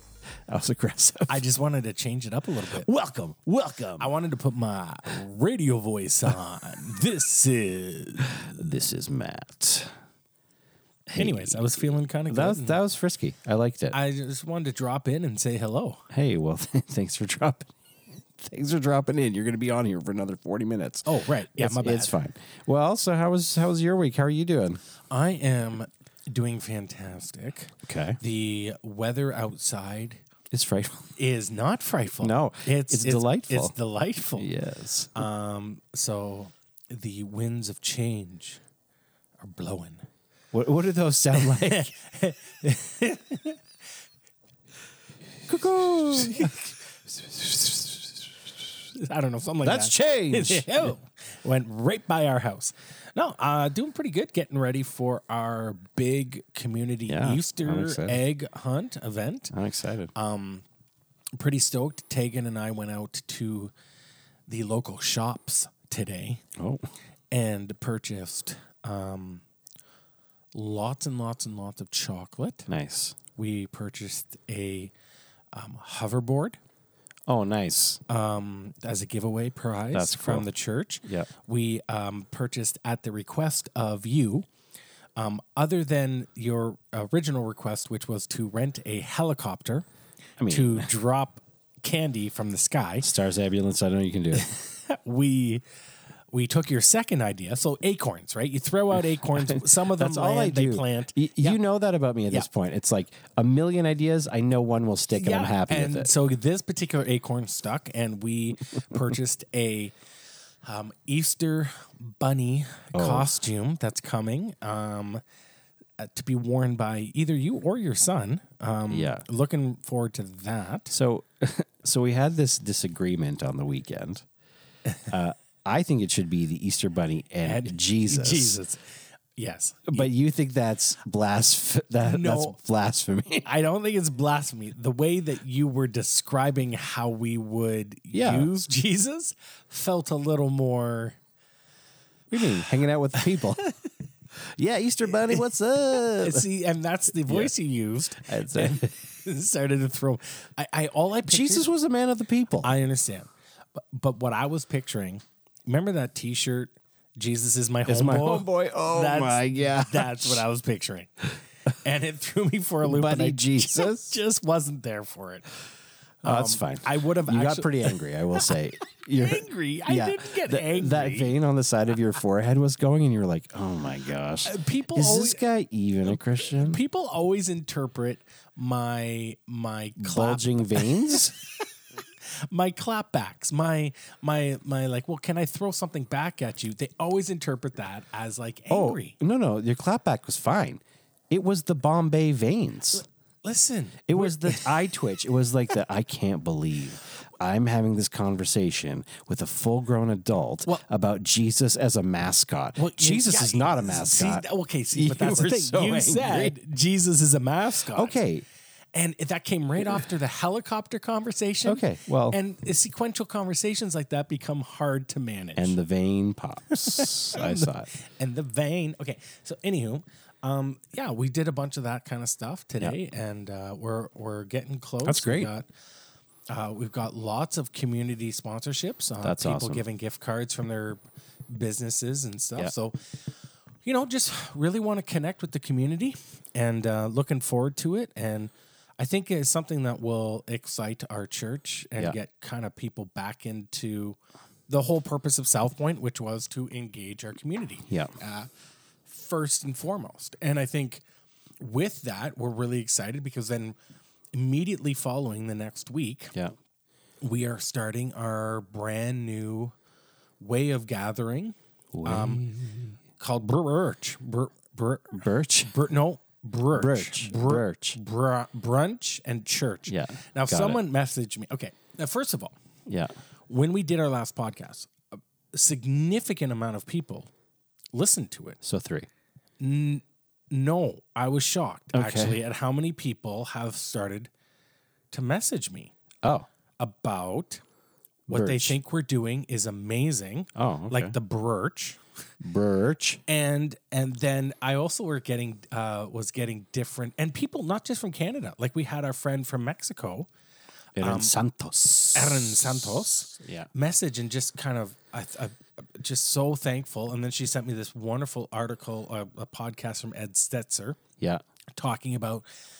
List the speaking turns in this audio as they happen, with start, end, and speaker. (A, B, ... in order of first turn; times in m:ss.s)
0:00.5-0:01.4 A
0:01.3-0:02.8 B
0:02.6-0:04.1 A
0:04.0-0:08.5 B
0:08.2-0:09.9 A
0:11.1-0:11.7 A
0:11.2-0:12.8 B
0:12.3-0:14.0 A
0:13.9-0:16.0 B
0:16.1-0:17.7 A
0:18.4-0:24.8 A
0:21.0-0:22.2 B
0:25.1-0:30.2 B
0:27.8-0:28.2 A
0:30.5-0:31.1 A
0:31.2-0:34.5 B
0:32.2-0:33.7 A
0:34.4-0:35.2 A
0:35.1-0:38.6 B
0:39.4-0:40.0 B
0:40.5-0:41.9 A
0:41.3-0:43.6 B
0:45.4-0:46.7 A
0:46.2-0:46.7 B
0:47.4-0:47.9 B
0:48.8-0:59.5 B
0:49.6-0:50.9 A
0:57.1-0:58.2 A
0:59.5-1:00.1 A
1:00.1-1:00.6 B
1:01.4-1:03.7 B
1:04.5-1:06.4 B
1:06.6-1:06.8 A
1:07.3-1:09.4 B
1:10.5-1:12.7 B
1:12.7-1:13.2 A
1:13.4-1:14.9 B
1:15.5-1:16.6 B
1:17.3-1:18.0 A
1:18.1-1:24.5 B
1:19.9-1:20.5 A
1:25.2-1:29.8 B
1:30.4-1:30.9 A
1:30.5-1:33.1 B
1:33.0-1:34.5 A
1:34.3-1:35.6 B
1:36.3-1:41.6 B
1:39.4-1:46.1 A
1:45.1-1:49.9 B
1:50.6-1:55.2 B
1:52.9-1:53.3 A
1:56.0-2:00.9 B
1:58.9-1:59.2 A
2:00.9-2:04.2 A
2:05.1-2:08.6 A
2:07.4-2:10.1 B
2:09.9-2:13.5 A
2:12.0-2:12.6 B
2:13.4-2:21.2 B
2:18.1-2:18.5 A
2:22.3-2:23.6 A
2:24.5-2:26.4 A
2:25.2-2:31.7 B
2:27.2-2:27.5 A
2:28.2-2:28.9 A
2:31.2-2:32.7 A
2:32.6-2:45.5 B
2:37.8-2:40.4 A
2:42.8-2:44.2 A
2:46.2-2:51.3 B
2:46.2-2:56.8 A
2:54.4-2:55.4 B
2:56.1-3:01.6 B
3:00.0-3:01.3 A
3:02.2-3:09.2 B
3:08.7-3:13.0 A
3:13.4-3:14.9 B
3:14.1-3:26.5 A
3:22.8-3:28.2 B
3:27.9-3:28.4 A
3:28.9-3:35.8 B
3:31.6-3:32.4 A
3:35.6-3:37.9 A
3:36.7-3:45.7 B
3:45.0-3:45.5 A
3:46.5-3:53.0 B
3:49.2-3:49.8 A
3:53.8-4:08.5 B
4:07.9-4:08.1 A
4:09.1-4:11.0 B
4:11.6-4:13.8 B
4:14.3-4:16.3 B
4:17.2-4:19.7 B
4:20.4-4:22.4 B
4:21.9-4:23.0 A
4:23.2-4:32.6 B
4:25.1-4:25.8 A
4:26.7-4:28.0 A
4:29.9-4:30.8 A
4:32.9-4:33.1 A
4:33.5-4:37.3 B
4:37.9-4:38.6 B
4:38.6-4:39.1 A
4:39.6-4:44.3 B
4:41.9-4:42.4 A
4:45.1-4:45.9 B
4:46.8-4:47.6 B
4:48.3-4:48.8 A
4:48.3-4:52.0 B
4:50.5-4:51.2 A
4:52.4-4:53.2 A
4:53.3-5:00.3 B
5:01.0-5:03.7 A
5:01.0-5:01.3 B
5:02.1-5:11.0 B
5:11.7-5:12.5 B